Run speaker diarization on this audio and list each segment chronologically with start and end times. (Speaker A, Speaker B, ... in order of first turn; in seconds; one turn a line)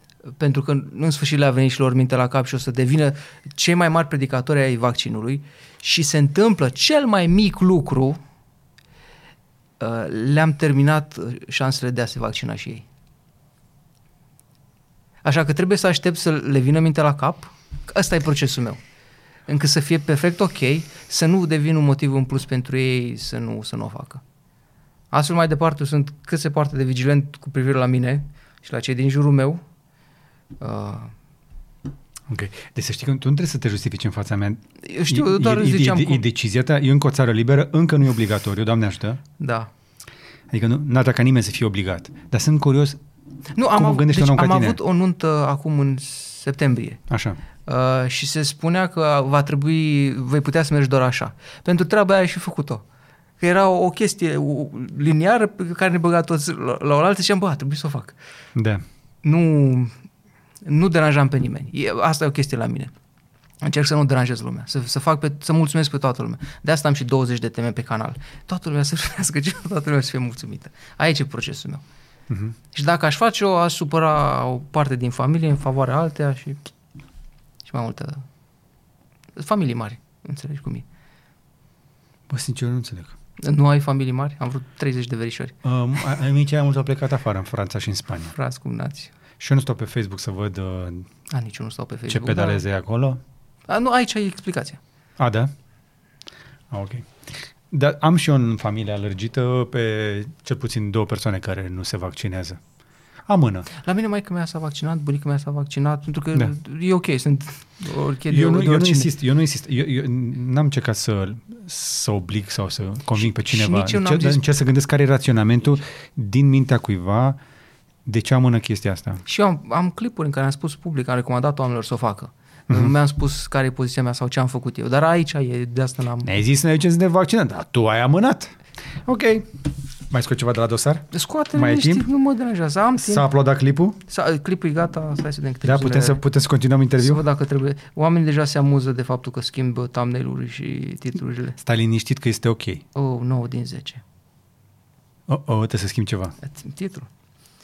Speaker A: 0.4-8.2
Speaker A: 9.8-12.8
Speaker A: 15.2-18.8
Speaker A: 19.5-24.2
Speaker A: 25.1-29.6
Speaker A: 30.6-31.1
Speaker B: 32.3-39.2
Speaker A: 34.8-36.2
Speaker A: 39.4-39.7
Speaker B: 40.5-43.0
Speaker A: 43.5-47.0
Speaker B: 43.7-44.8
Speaker B: 47.1-47.4
Speaker A: 47.6-52.8
Speaker A: 53.4-58.1
Speaker B: 58.5-58.8
Speaker A: 59.2-59.9
Speaker A: 60.6-62.9
Speaker A: 63.6-71.8
Speaker B: 72.3-72.5
Speaker A: 72.7-76.6
Speaker A: 77.6-78.2
Speaker A: 79.3-80.8
Speaker B: 82.3-83.1
Speaker A: 83.4-85.5
Speaker B: 85.6-88.3
Speaker A: 88.3-89.1
Speaker B: 89.4-91.1
Speaker A: 91.3-92.6
Speaker B: 92.1-93.2
Speaker A: 93.7-94.8
Speaker B: 95.2-95.5
Speaker B: 96.7-97.1
Speaker B: 97.7-102.6
Speaker B: 103.3-103.7
Speaker A: 103.7-109.1
Speaker B: 108.3-117.4
Speaker A: 113.2-114.4
Speaker B: 118.0-119.2
Speaker A: 119.2-126.3
Speaker B: 126.2-132.1
Speaker A: 131.1-133.2
Speaker B: 133.0-134.0
Speaker A: 134.1-136.2
Speaker B: 135.6-137.2
Speaker A: 137.0-141.6
Speaker B: 141.6-142.8
Speaker A: 142.9-144.0
Speaker B: 145.3-146.3
Speaker A: 146.4-147.1